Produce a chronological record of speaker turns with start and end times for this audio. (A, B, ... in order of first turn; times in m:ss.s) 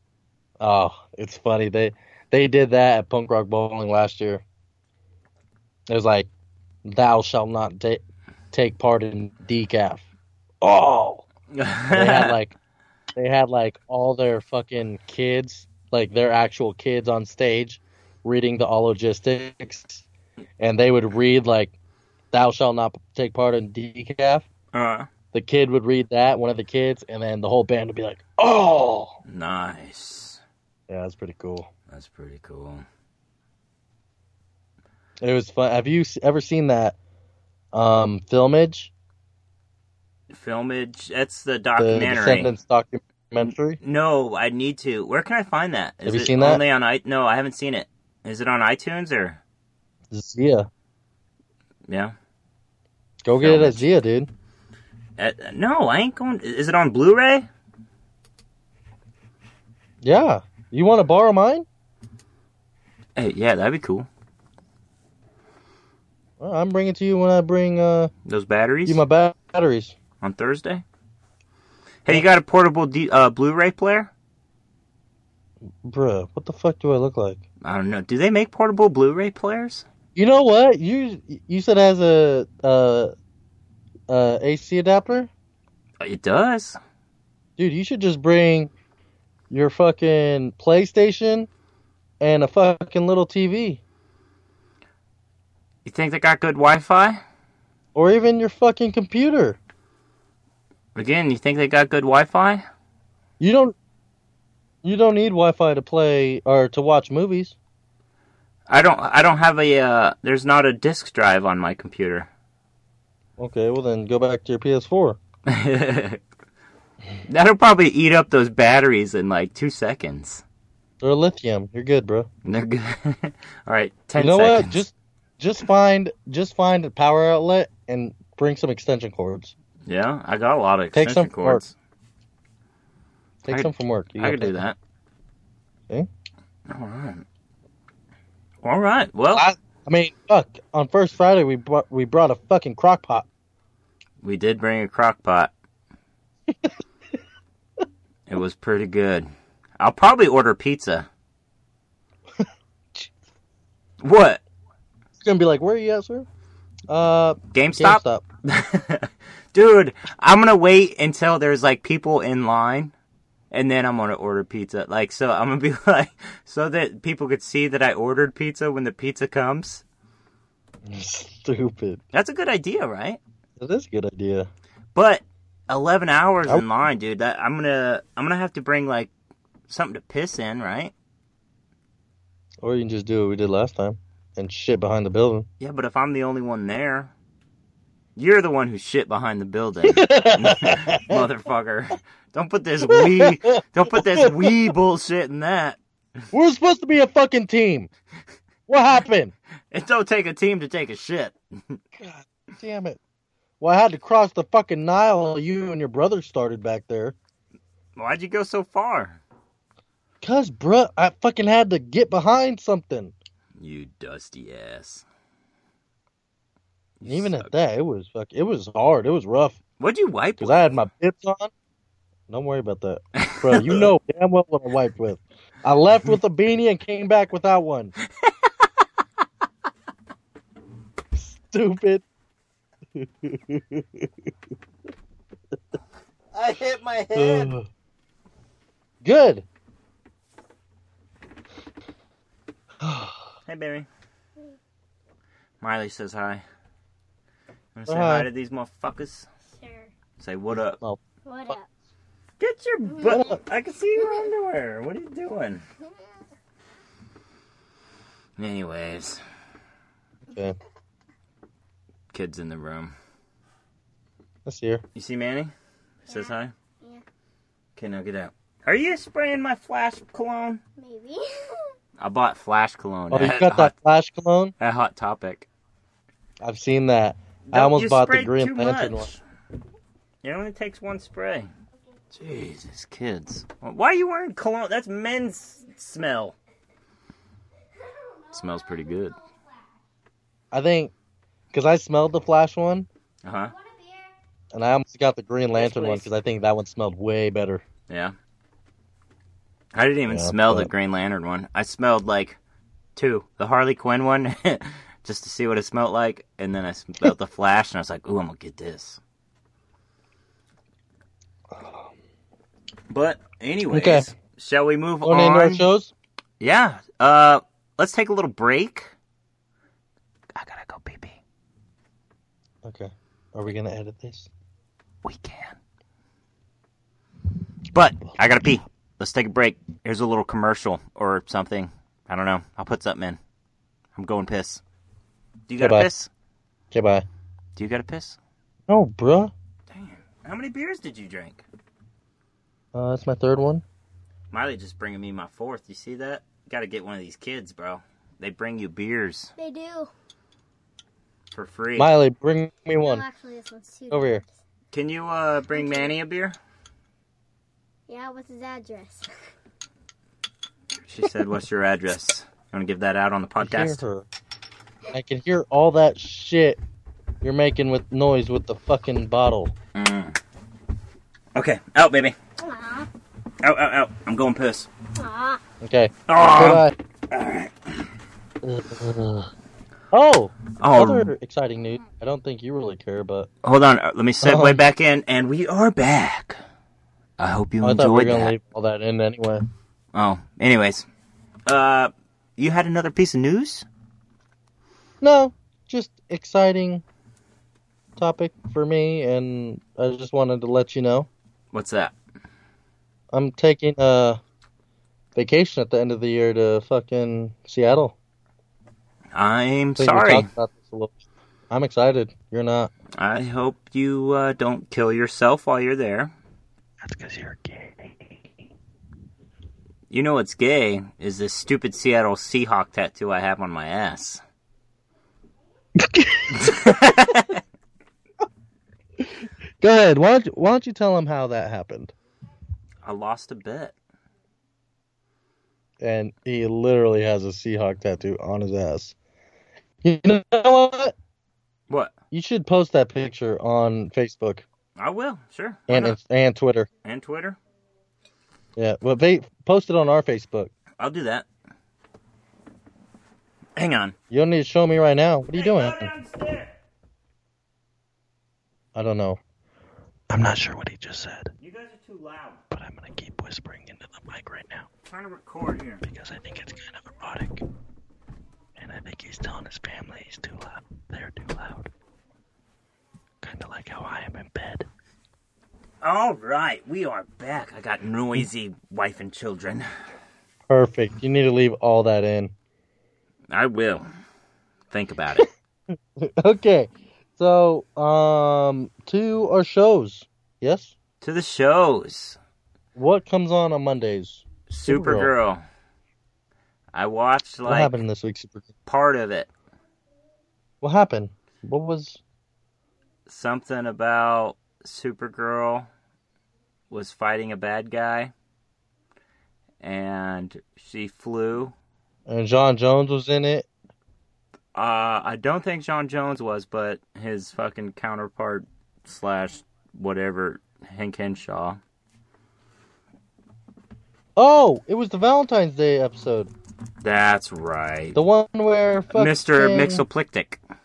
0:00.6-0:04.4 A
0:05.9-0:06.3 A
0:06.8-0:10.0 A
0:10.6-0:11.2 A
0:11.5-0:12.3 B
0:11.9-0:12.5 A
0:13.2-0:20.0 A
0:20.6-0:21.7 A
0:22.3-0:24.4 A
0:24.7-0:25.1 B
0:25.3-0:29.1 A
0:29.3-0:30.4 B
0:30.9-0:31.7 A
0:31.9-0:32.8 B
0:35.2-0:37.0 A
0:37.7-0:38.9 A
0:40.3-0:42.5 B
0:41.8-0:43.8 A
0:43.8-0:49.4 B
0:46.0-0:46.6 A
0:50.1-0:50.7 A
0:51.9-0:52.1 B
0:53.2-0:54.3 A
0:53.4-0:53.8 B
0:55.2-0:57.5 B
1:00.0-1:01.6 A
1:03.2-1:04.1 B
1:06.4-1:08.1 A
1:08.2-1:09.0 B
1:08.9-1:10.0 A
1:10.2-1:10.8 B
1:12.0-1:14.1 B
1:15.8-1:17.4 A
1:17.6-1:19.8 B
1:20.1-1:23.1 A
1:24.1-1:25.3 A
1:26.0-1:26.8 B
1:27.6-1:28.7 A
1:29.5-1:31.5 A
1:32.2-1:33.8 A
1:35.8-1:37.2 B
1:37.9-1:39.6 A
1:40.9-1:42.6 B
1:43.4-1:43.7 A
1:44.8-1:47.6 A
1:48.7-1:52.3 B
1:53.4-1:55.2 A
1:55.5-1:56.2 B
1:57.3-2:00.4 B
2:01.0-2:02.3 A
2:02.4-2:04.8 B
2:04.2-2:09.5 A
2:09.8-2:11.7 B
2:10.9-2:11.6 A
2:13.4-2:14.6 A
2:13.5-2:14.8 B
2:16.7-2:17.2 B
2:18.6-2:19.5 B
2:19.3-2:23.3 A
2:24.2-2:25.5 B
2:28.3-2:31.1 B
2:34.0-2:34.4 B
2:35.2-2:36.3 A
2:36.9-2:38.2 A
2:37.5-2:42.9 B
2:43.5-2:49.8 B
2:50.8-2:52.0 A
2:52.1-2:53.2 B
2:53.6-2:54.5 A
2:54.9-2:59.1 B
2:59.7-3:00.9 B
3:02.6-3:05.5 A
3:05.6-3:07.1 B
3:08.2-3:15.8 B
3:09.9-3:11.2 A
3:12.9-3:14.7 A
3:16.3-3:17.9 A
3:18.7-3:19.3 A
3:19.7-3:21.8 B
3:22.0-3:23.0 A
3:23.6-3:27.2 A
3:28.0-3:29.2 B
3:30.2-3:33.1 A
3:33.6-3:35.0 B
3:37.0-3:37.5 B
3:37.1-3:39.6 A
3:39.8-3:40.7 B
3:40.4-3:41.5 A
3:42.3-3:47.9 A
3:43.2-3:43.8 B
3:51.1-3:52.0 A
3:52.9-3:54.1 A
3:56.3-3:57.5 B
3:57.2-3:57.7 A
3:59.0-3:59.5 A
4:02.8-4:03.2 A
4:03.4-4:03.9 B
4:05.6-4:06.4 B
4:07.7-4:09.3 B
4:07.9-4:08.3 A
4:09.6-4:09.9 C
4:10.2-4:10.8 B
4:11.2-4:11.7 C
4:12.4-4:15.6 B
4:12.9-4:13.2 C
4:13.1-4:13.4 A
4:14.0-4:14.3 C
4:18.4-4:19.2 B
4:20.3-4:20.6 A
4:22.1-4:22.9 B
4:24.4-4:24.8 A
4:24.9-4:25.5 B
4:26.0-4:26.5 B
4:26.1-4:27.0 C
4:27.8-4:30.6 B
4:30.8-4:31.7 C
4:32.0-4:33.7 B
4:33.1-4:34.5 A
4:34.6-4:35.5 B
4:36.4-4:39.1 A
4:37.5-4:39.2 B
4:40.2-4:41.5 B
4:42.1-4:46.4 B
4:47.9-4:49.3 C
4:48.3-4:49.2 B
4:50.5-4:50.9 A
4:51.5-4:52.9 A
4:53.2-4:53.5 B
4:53.5-4:54.1 C
4:54.5-4:57.6 A
4:55.6-4:56.1 B
4:57.9-4:58.1 B
4:59.7-5:02.4 B
5:00.1-5:00.7 A
5:03.0-5:09.0 B
5:11.5-5:11.9 A
5:12.9-5:15.6 B
5:13.7-5:14.1 A
5:15.0-5:15.9 A
5:16.4-5:18.9 B
5:20.3-5:21.2 B
5:22.6-5:24.3 A
5:25.0-5:25.6 B
5:27.7-5:33.2 B
5:33.9-5:34.6 B
5:35.5-5:36.1 B
5:35.6-5:35.9 A
5:36.7-5:37.0 A
5:37.6-5:38.2 B
5:38.7-5:39.3 A
5:39.7-5:41.4 B
5:42.7-5:43.6 A
5:44.3-5:49.3 B
5:49.4-5:49.9 C
5:51.3-5:51.9 B
5:51.8-5:53.0 A
5:52.8-5:54.3 C
5:53.9-5:54.2 A
5:54.7-5:56.4 B
5:55.5-5:55.9 C
5:57.9-5:59.3 C
6:00.8-6:03.8 B
6:03.4-6:04.1 A
6:04.9-6:06.6 A
6:07.2-6:09.5 A
6:09.7-6:10.2 B
6:11.3-6:12.2 B
6:12.4-6:12.9 C
6:13.4-6:14.7 B
6:15.0-6:15.4 C
6:15.6-6:16.7 A
6:16.1-6:17.7 B
6:18.4-6:19.3 A
6:19.9-6:23.3 A
6:20.6-6:21.1 B
6:23.4-6:26.4 B
6:24.2-6:24.6 A
6:27.2-6:28.3 B
6:27.6-6:29.4 A
6:29.9-6:30.8 B
6:31.5-6:33.7 B
6:35.0-6:36.8 A
6:38.0-6:41.1 A
6:41.5-6:41.9 B
6:43.1-6:44.2 A
6:45.2-6:47.9 A
6:49.1-6:50.3 B
6:49.8-6:51.0 A
6:51.5-6:52.7 A
6:53.0-6:56.1 B
6:56.8-6:58.0 A
6:59.9-7:04.2 B
7:05.8-7:06.9 A
7:06.3-7:07.4 B
7:09.0-7:11.9 A
7:12.8-7:13.7 B
7:15.8-7:19.0 A
7:19.8-7:20.9 A
7:21.7-7:21.9 B
7:22.1-7:24.4 A
7:24.8-7:26.0 B
7:25.7-7:26.7 A
7:26.8-7:27.4 B
7:28.6-7:30.5 A
7:30.8-7:31.3 B
7:33.6-7:33.9 B
7:34.1-7:35.9 A
7:35.3-7:36.5 B
7:38.7-7:39.2 A
7:40.1-7:41.3 A
7:41.4-7:42.4 B
7:42.5-7:44.7 A
7:44.9-7:45.8 B
7:45.8-7:47.4 A
7:48.6-7:51.7 A
7:53.2-7:54.7 A
7:55.8-7:59.7 B
8:00.5-8:02.3 A
8:03.3-8:03.9 B
8:04.7-8:05.3 B
8:06.0-8:10.7 A
8:11.0-8:12.2 B
8:12.8-8:15.1 A
8:14.5-8:15.4 B
8:16.7-8:17.8 B
8:17.4-8:18.5 A
8:18.6-8:19.3 B
8:20.6-8:22.0 A
8:23.1-8:25.7 B
8:26.7-8:28.1 B
8:29.6-8:31.5 B
8:32.0-8:33.5 A
8:34.5-8:41.6 B
8:44.2-8:46.3 A
8:46.8-8:48.0 B
8:47.9-8:49.8 A
8:48.9-8:50.4 B